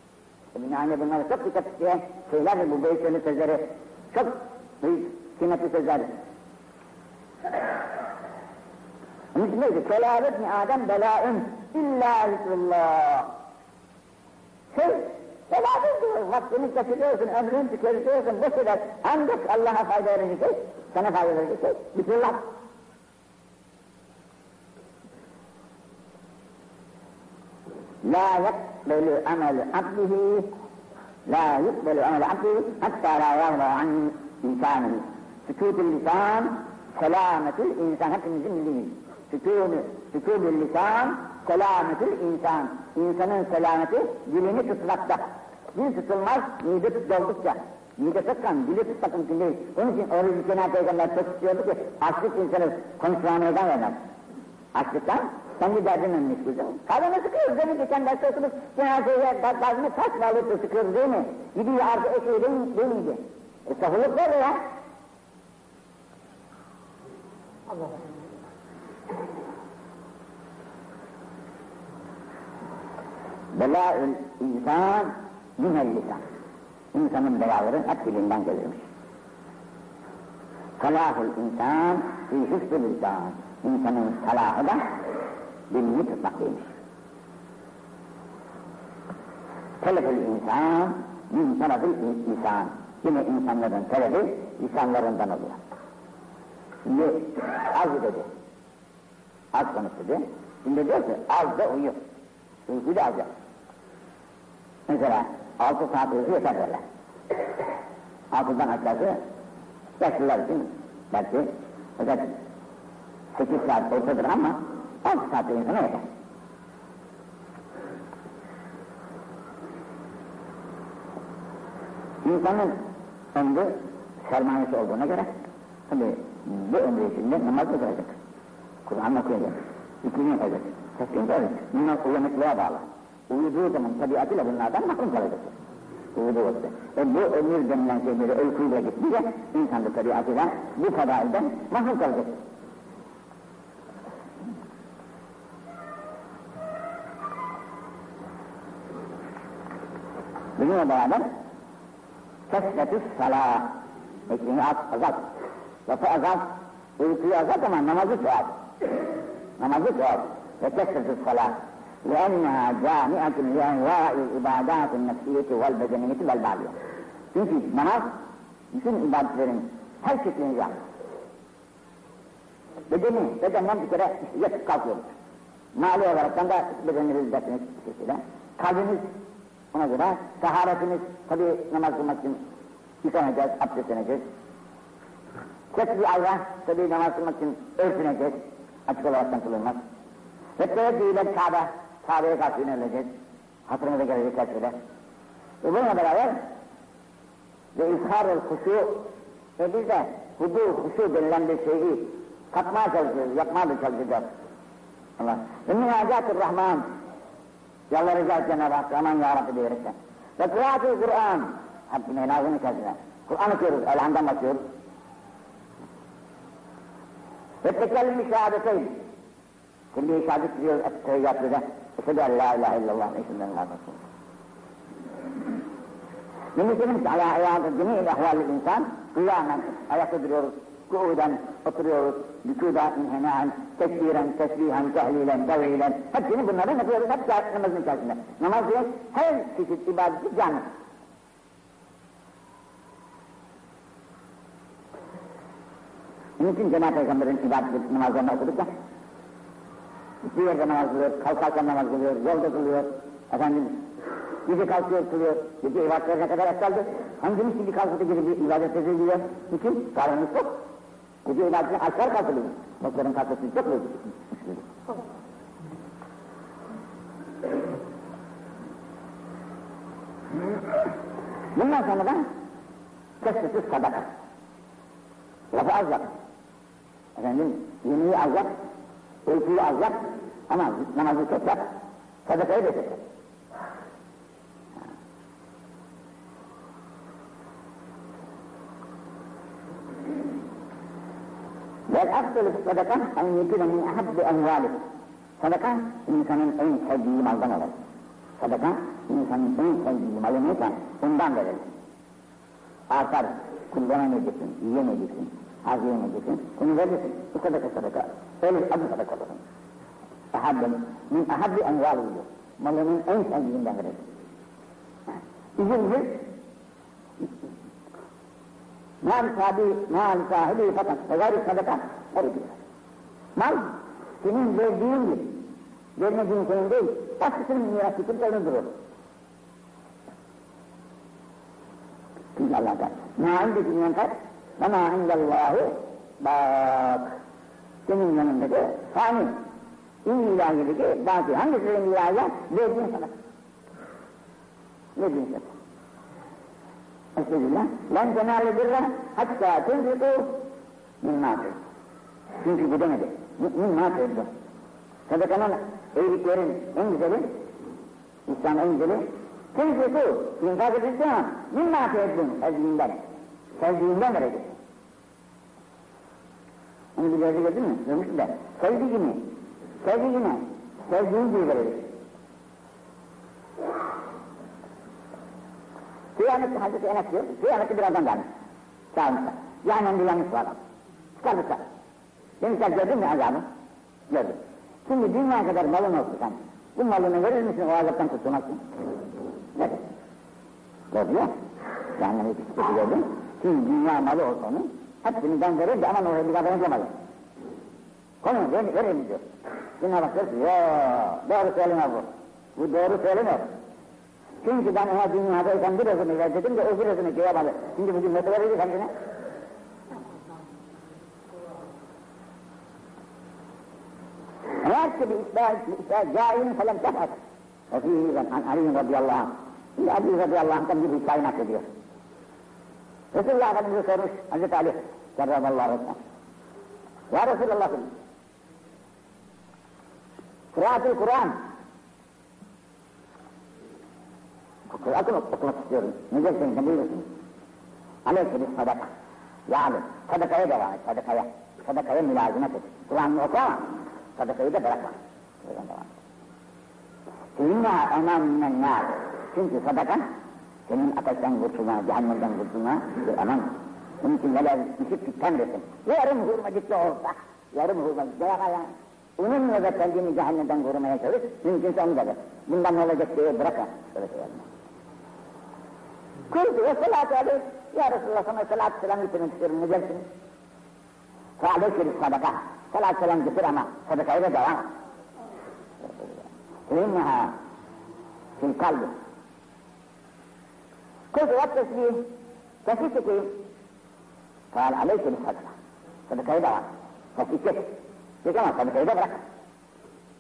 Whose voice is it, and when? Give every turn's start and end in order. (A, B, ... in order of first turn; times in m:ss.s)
0:00.5-0:06.1 A
0:09.3-0:13.3 A
0:14.7-0:22.5 A
0:28.0-0:30.5 A
0:31.2-0:54.0 A
0:54.7-1:04.6 A
1:13.5-1:16.2 A
1:16.9-1:18.8 A
1:20.8-1:24.8 A
1:25.7-1:26.7 A
1:29.8-1:35.6 A
1:36.8-1:38.3 A
1:39.5-1:42.0 A
1:42.7-1:43.3 A
1:44.9-1:46.8 A
1:48.3-1:49.2 A
1:50.0-1:52.3 A
1:53.3-1:56.0 A
2:02.2-2:02.8 A
2:03.3-2:05.3 A
2:05.9-2:08.1 A
2:08.8-2:15.5 A
2:16.1-2:22.4 A
2:30.6-2:31.2 A
2:32.5-2:33.8 A
2:34.3-2:35.2 A
2:35.9-2:38.5 A
2:39.6-2:46.7 A
2:47.3-2:48.2 A
2:48.7-2:50.7 A
2:52.9-2:55.1 A
2:55.7-2:59.1 A
2:59.7-3:02.4 A
3:03.0-3:04.2 A
3:05.7-3:09.8 A
3:10.6-3:13.1 A
3:13.7-3:14.8 A
3:15.6-3:16.4 A
3:17.7-3:24.3 A
3:25.2-3:26.9 A
3:27.9-3:34.6 A
3:37.6-3:39.0 A
3:39.9-3:44.0 A
3:46.5-4:00.7 A
4:06.4-4:08.7 A
4:10.2-4:13.9 A
4:14.4-4:20.6 A
4:21.2-4:24.6 A
4:31.5-4:32.2 A
4:33.2-4:34.1 A
4:35.5-4:36.1 A
4:37.2-4:38.5 A
4:39.2-4:41.7 A
4:42.2-4:43.0 A
4:51.9-4:54.8 A
4:55.4-4:57.7 A
4:58.4-5:01.7 A
5:02.9-5:09.4 A
5:10.3-5:14.0 A
5:15.6-5:16.2 A
5:19.0-5:22.6 A
5:23.4-5:25.4 A
5:26.0-5:28.7 A
5:32.4-5:37.1 A
5:37.9-5:39.4 A
5:40.0-5:43.1 A
5:45.0-5:45.5 A
5:47.2-5:50.5 A
5:51.0-5:51.6 A
5:52.4-5:54.3 A
5:55.1-5:57.4 A
5:58.3-6:03.0 A
6:03.6-6:04.5 A
6:07.0-6:11.9 A
6:16.2-6:18.3 A
6:18.9-6:20.6 A
6:21.2-6:21.6 A
6:22.4-6:23.4 A
6:24.1-6:28.6 A
6:30.9-6:31.3 A
6:32.0-6:36.9 A
6:38.2-6:39.2 A
6:39.8-6:43.5 A
6:44.4-6:48.9 A
6:54.6-6:57.1 A
6:57.7-7:01.6 A
7:03.1-7:06.0 A
7:07.1-7:07.9 A
7:10.5-7:11.4 A
7:14.7-7:17.1 A
7:18.0-7:18.9 A
7:19.5-7:25.9 A
7:27.4-7:30.0 A
7:30.7-7:44.4 A
7:46.3-7:50.0 A
7:51.4-7:54.7 A
7:55.8-7:56.1 A
7:56.7-7:57.3 A
7:58.4-7:58.9 A
8:01.1-8:02.1 A
8:02.6-8:03.4 A
8:04.5-8:05.5 A
8:06.1-8:09.2 A